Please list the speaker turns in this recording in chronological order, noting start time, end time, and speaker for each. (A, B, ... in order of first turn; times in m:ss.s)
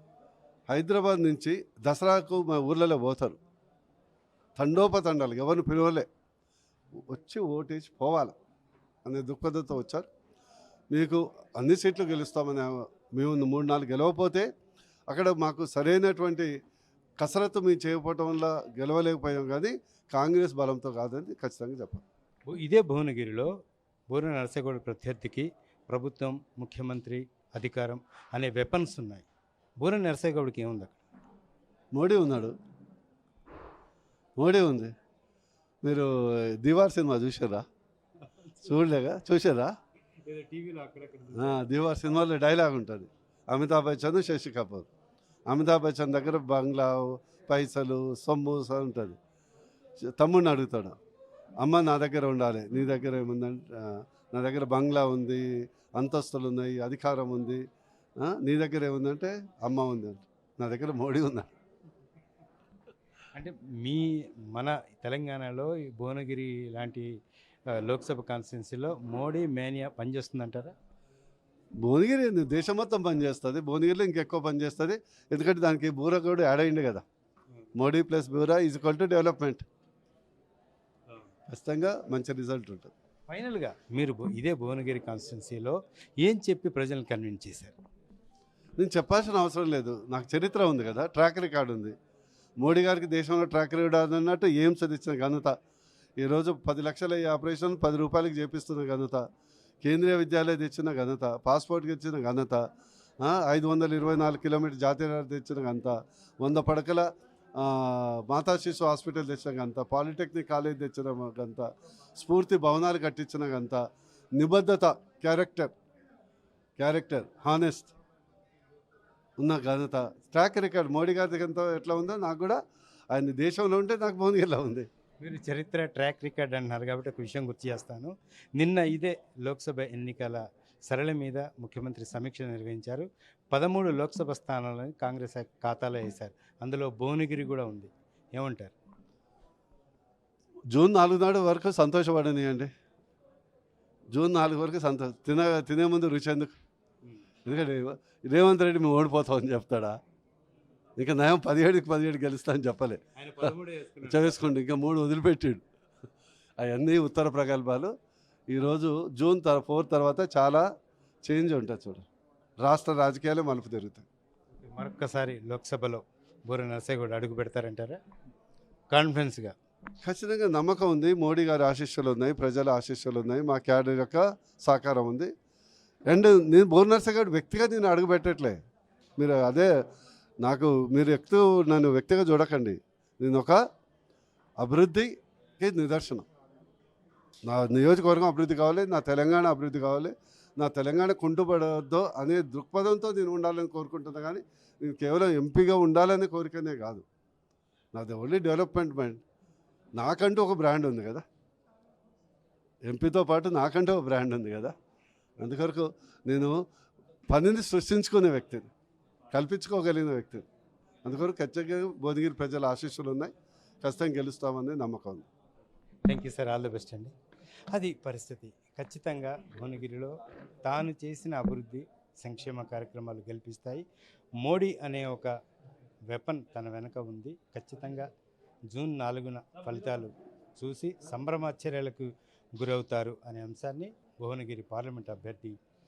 0:00.7-0:03.4 A
0:04.6-0:06.1 A
0:07.1-0:08.3 A
0:09.0-0:10.0 A
0:10.9-0:14.5 A
0:15.1-0:16.5 A
0:17.2-0:22.0 A
0:22.5-0:23.5 B
0:24.1-0:29.2 B
0:29.8-0:31.0 B
0:31.9-0:32.5 A
0:34.4-0:34.9 A
0:35.8-0:37.6 A
0:38.6-0:39.7 A
0:40.2-0:41.7 B
0:41.3-0:44.9 A
0:45.5-0:49.2 A
0:50.0-0:51.0 A
0:51.6-0:57.6 A
0:58.2-1:01.5 A
1:03.3-1:07.1 B
1:07.7-1:10.7 B
1:11.8-1:17.0 A
1:17.8-1:19.6 A
1:21.5-1:22.9 A
1:23.3-1:27.7 B
1:28.8-1:31.9 A
1:32.6-1:35.5 A
1:36.2-1:39.2 A
1:39.8-1:42.6 A
1:43.2-1:53.8 A
1:54.4-1:55.7 A
1:56.8-1:57.9 A
1:59.4-2:02.6 A
2:03.1-2:04.9 A
2:05.2-2:18.7 B
2:20.7-2:22.7 A
2:24.1-2:26.5 A
2:27.4-2:30.0 A
2:31.0-2:35.6 A
2:33.2-2:34.4 B
2:36.6-2:37.9 A
2:38.5-2:40.6 A
2:41.2-2:42.0 A
2:42.6-2:44.0 A
2:44.6-2:48.0 B
2:48.9-2:49.5 B
2:50.0-2:55.3 A
2:56.1-2:58.6 A
2:59.2-2:59.7 A
3:00.4-3:03.6 A
3:04.6-3:06.2 A
3:07.4-3:17.0 A
3:17.9-3:19.2 A
3:20.0-3:21.2 A
3:22.8-3:24.7 A
3:25.4-3:26.6 A
3:27.3-3:28.7 A
3:29.3-3:30.4 A
3:31.0-3:35.2 A
3:36.1-3:37.1 B
3:37.7-3:43.8 B
3:44.4-3:45.3 B
3:46.1-3:48.1 B
3:48.7-3:55.6 B